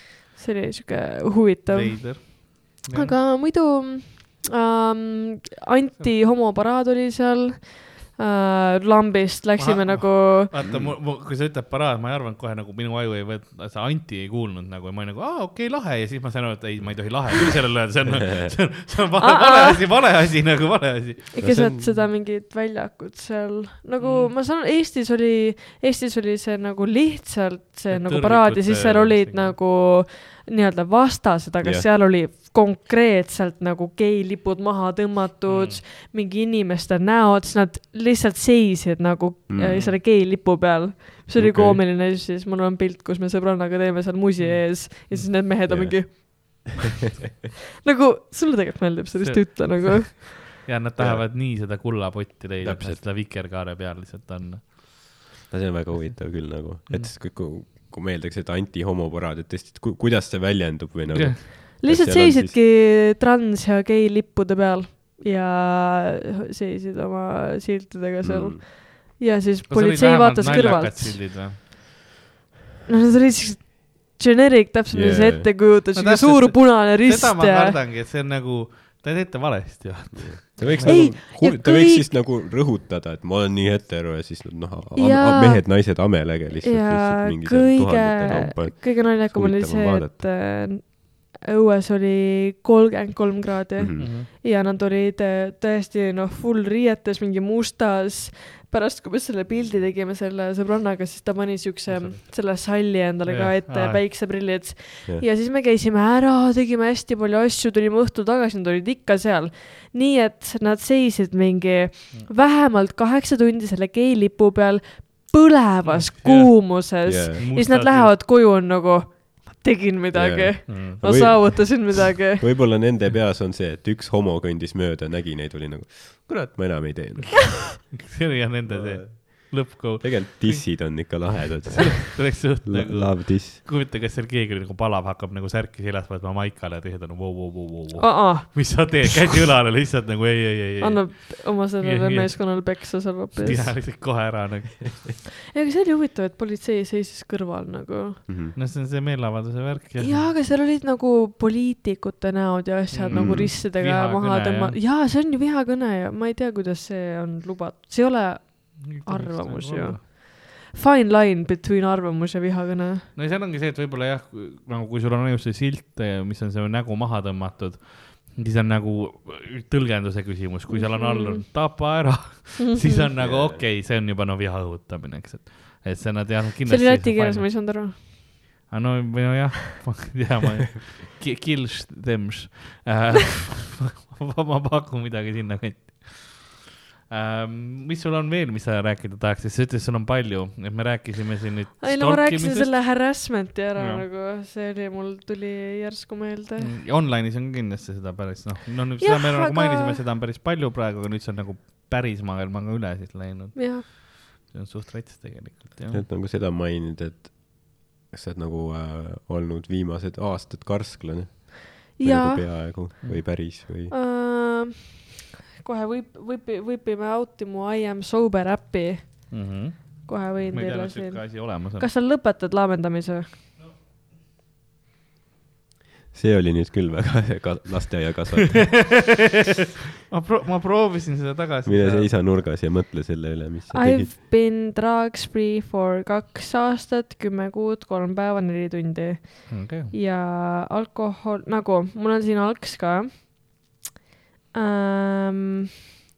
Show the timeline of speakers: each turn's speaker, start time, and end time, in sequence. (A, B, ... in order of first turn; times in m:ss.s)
0:00.4-0:10.5 A
0:01.7-0:03.2 B
0:09.6-0:21.3 B
0:10.6-0:11.0 C
0:19.2-0:19.8 A
0:21.3-0:46.8 A
0:21.4-0:22.0 C
0:24.0-0:24.3 B
0:27.9-0:29.6 B
0:31.6-0:31.9 C
0:35.5-0:35.8 B
0:39.5-0:39.8 C
0:39.6-0:40.0 B
0:41.3-0:41.8 C
0:44.4-0:45.3 B
0:45.7-0:46.7 C
0:47.8-0:50.3 A
0:49.2-0:55.2 B
0:51.0-0:51.2 C
0:52.6-0:53.0 C
0:55.5-1:02.6 C
0:55.9-0:57.1 B
1:01.1-1:01.4 B
1:01.8-1:11.2 A
1:08.2-1:08.6 C
1:09.7-1:11.6 B
1:12.9-1:17.8 A
1:14.9-1:15.6 C
1:15.9-1:21.1 B
1:20.1-1:30.3 C
1:20.8-1:22.1 A
1:25.0-2:02.4 A
1:33.8-1:34.1 C
1:34.0-1:34.3 B
1:41.9-1:42.5 B
1:43.3-1:44.0 B
1:55.8-1:58.1 B
1:57.0-1:57.4 C
2:00.1-2:07.9 C
2:00.7-2:01.3 B
2:07.2-2:22.8 B
2:08.7-2:13.6 C
2:18.0-2:19.1 A
2:20.8-2:23.8 A
2:23.4-2:25.1 B
2:25.5-2:28.2 A
2:28.3-2:28.5 C
2:28.5-2:30.3 B
2:30.0-2:43.1 A
2:32.9-2:34.8 B
2:33.1-2:33.5 C
2:38.8-2:40.0 B
2:43.1-2:58.1 B
2:50.7-2:51.8 A
2:52.6-2:53.1 A
2:53.2-2:53.6 C
2:56.6-2:58.0 A
2:58.7-3:06.6 B
3:07.1-3:13.1 B
3:11.8-3:16.7 A
3:13.8-3:14.0 B
3:16.6-3:26.0 B
3:19.0-3:20.0 A
3:23.5-3:23.8 A
3:25.9-3:33.9 C
3:32.0-3:32.7 A
3:33.9-3:43.4 A
3:39.3-3:41.9 B
3:46.1-3:49.0 C
3:48.5-3:49.1 B
3:50.1-3:52.1 B
3:51.6-3:54.1 C
3:53.7-4:03.3 A
3:59.5-3:59.9 B
4:04.5-4:05.7 A